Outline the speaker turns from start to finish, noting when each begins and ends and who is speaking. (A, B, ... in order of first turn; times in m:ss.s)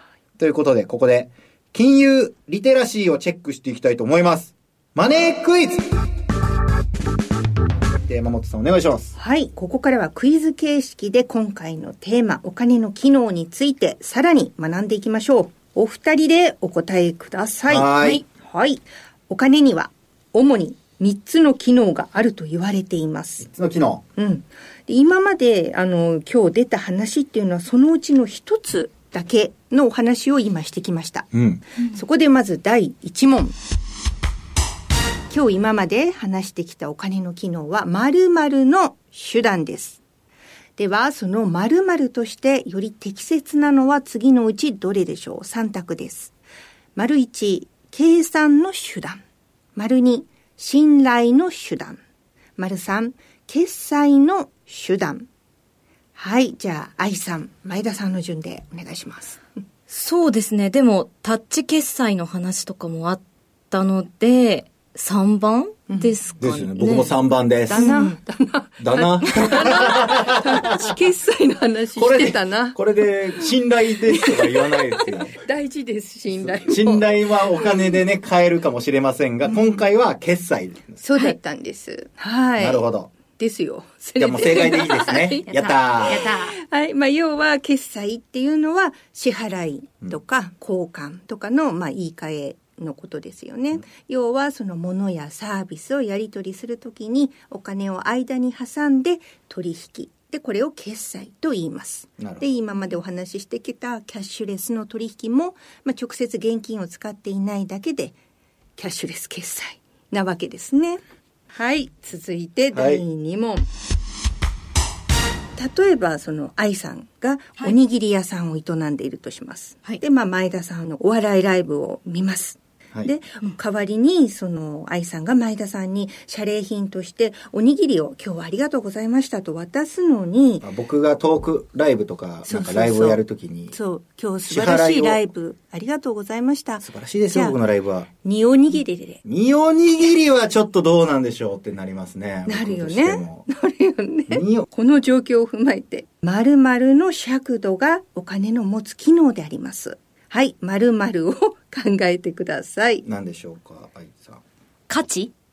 0:00.4-0:05.9 A
0:08.0-0:09.1 A
0:09.2-0:23.4 B
0:17.7-0:18.2 A
0:23.4-0:24.0 A
0:24.2-0:33.6 B
0:31.3-0:31.6 A
0:35.3-0:40.0 B
0:40.8-0:46.3 B
0:47.0-0:49.2 B
0:49.8-0:52.0 B
0:52.6-0:55.3 B
0:56.2-0:59.4 B
0:59.9-1:07.1 C
1:05.9-1:06.1 B
1:06.4-1:08.0 A
1:07.7-1:12.8 B
1:07.8-1:08.2 C
1:08.8-1:10.9 A
1:12.0-1:15.4 A
1:14.2-1:17.7 B
1:16.4-1:21.0 A
1:19.4-1:19.8 B
1:21.0-1:22.8 B
1:22.6-1:23.1 A
1:23.4-1:48.2 B
1:24.2-1:26.3 A
1:25.5-1:26.6 C
1:42.2-1:42.5 A
1:48.8-1:51.0 B
1:51.5-1:53.7 B
1:52.7-1:53.0 A
1:55.6-2:10.7 B
2:10.6-2:13.8 A
2:12.4-2:17.6 B
2:14.5-2:15.2 A
2:16.8-2:18.1 A
2:18.2-2:19.2 B
2:19.2-2:23.5 A
2:22.5-2:33.0 B
2:24.3-2:24.6 A
2:33.0-2:34.4 A
2:34.9-2:35.3 C